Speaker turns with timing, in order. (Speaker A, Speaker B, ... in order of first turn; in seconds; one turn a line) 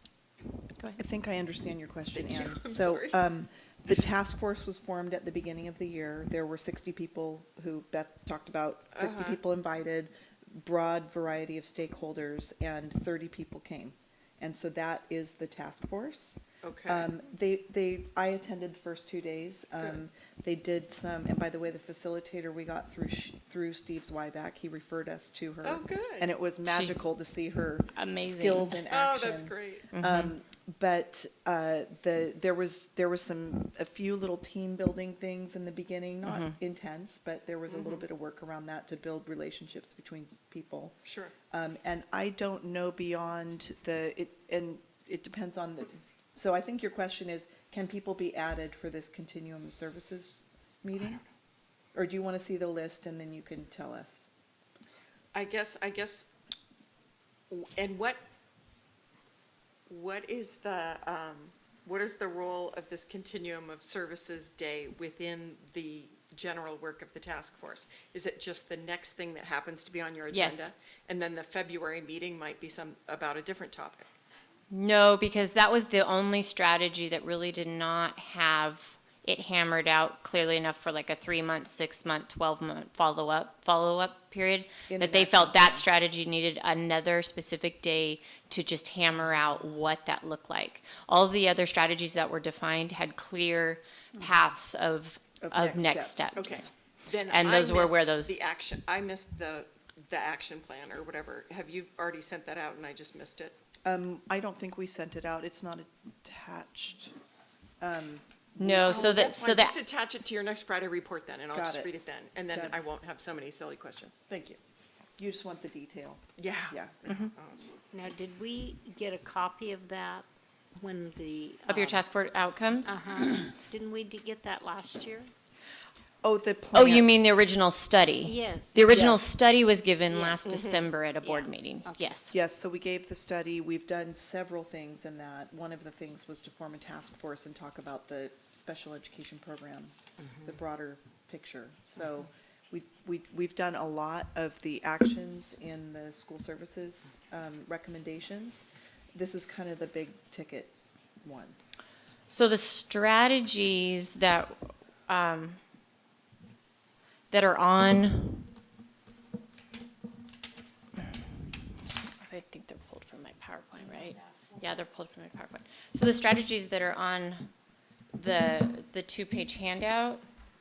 Speaker A: 1.0-41.0
Speaker B: 2.1-3.2
Speaker B: 8.9-9.4
Speaker B: 16.6-17.1
Speaker B: 25.6-26.3
Speaker C: 26.6-27.0
Speaker C: 27.9-28.8
Speaker B: 28.9-29.9
Speaker C: 29.9-30.3
Speaker C: 36.2-36.5
Speaker B: 37.7-38.0
Speaker B: 41.0-41.3
Speaker A: 41.5-51.2
Speaker A: 51.9-54.3
Speaker B: 55.3-56.3
Speaker B: 57.5-58.2
Speaker B: 59.9-74.0
Speaker C: 70.3-70.7
Speaker C: 74.7-96.7
Speaker A: 84.9-85.8
Speaker A: 95.4-96.6
Speaker B: 96.3-103.5
Speaker C: 97.3-98.4
Speaker A: 103.8-107.1
Speaker A: 107.8-109.3
Speaker C: 108.6-109.8
Speaker B: 108.9-114.3
Speaker A: 111.5-111.9
Speaker A: 112.5-112.8
Speaker A: 114.3-114.6
Speaker A: 115.2-117.0
Speaker B: 116.4-117.8
Speaker D: 117.9-122.0
Speaker C: 121.7-123.0
Speaker D: 122.8-125.3
Speaker A: 126.2-127.1
Speaker C: 126.7-132.3
Speaker D: 128.2-128.8
Speaker A: 128.9-129.2
Speaker D: 130.1-130.4
Speaker B: 130.4-130.8
Speaker D: 131.2-132.1
Speaker A: 132.3-151.6
Speaker C: 152.3-155.6
Speaker C: 157.3-158.5
Speaker C: 162.2-167.5
Speaker C: 168.1-170.2